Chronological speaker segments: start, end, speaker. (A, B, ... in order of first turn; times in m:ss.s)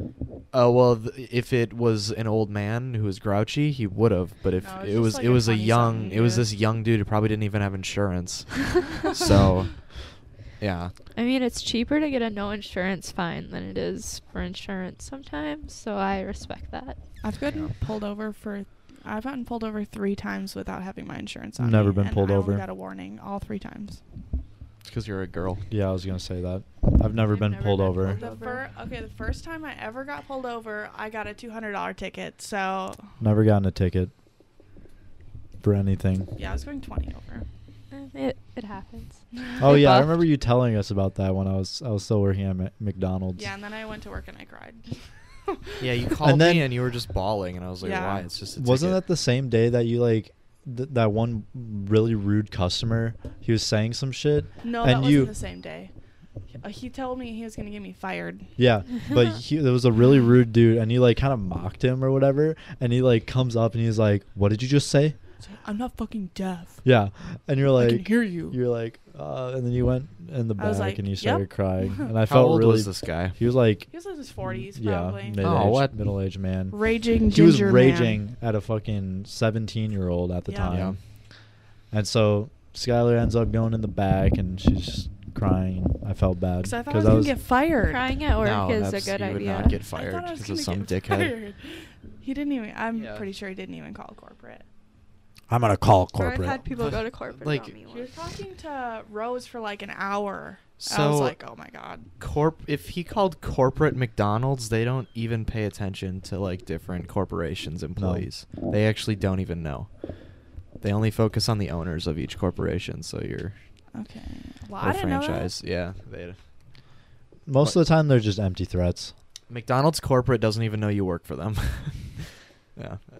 0:00.5-0:10.0 A
0:04.6-0:06.5 B
0:10.6-0:10.9 A
0:11.1-0:17.0 C
0:17.2-0:24.0 B
0:21.6-0:22.6 D
0:24.8-0:25.6 A
0:25.7-0:28.2 D
0:27.2-0:28.6 C
0:28.1-0:33.1 B
0:33.2-0:34.1 D
0:35.6-0:36.3 D
0:36.4-0:37.4 B
0:37.9-0:39.2 C
0:39.6-0:43.5 D
0:43.3-0:44.9 B
0:45.5-0:45.8 B
0:45.8-0:49.0 A
0:46.2-0:46.8 D
0:47.8-0:48.2 B
0:48.6-0:55.3 D
0:54.6-0:55.9 B
0:56.5-0:58.5 B
0:58.6-1:05.2 D
1:05.4-1:06.8 B
1:06.8-1:13.9 D
1:07.8-1:08.6 B
1:10.6-1:12.0 B
1:12.2-1:13.4 A
1:13.9-1:15.6 B
1:14.5-1:21.0 D
1:15.4-1:15.9 A
1:16.7-1:18.2 B
1:20.5-1:20.8 B
1:20.7-1:21.0 A
1:21.9-1:27.4 D
1:26.6-1:28.1 B
1:27.8-1:29.8 C
1:28.4-1:31.3 A
1:29.9-1:34.6 B
1:32.9-1:33.3 A
1:35.5-1:36.6 D
1:36.2-1:38.1 C
1:36.7-1:37.7 A
1:37.9-1:42.1 B
1:40.8-1:41.4 A
1:42.2-1:53.5 A
1:47.9-1:48.3 D
1:53.9-1:55.5 B
1:54.8-1:56.4 A
1:57.5-1:59.1 D
1:59.5-2:03.0 A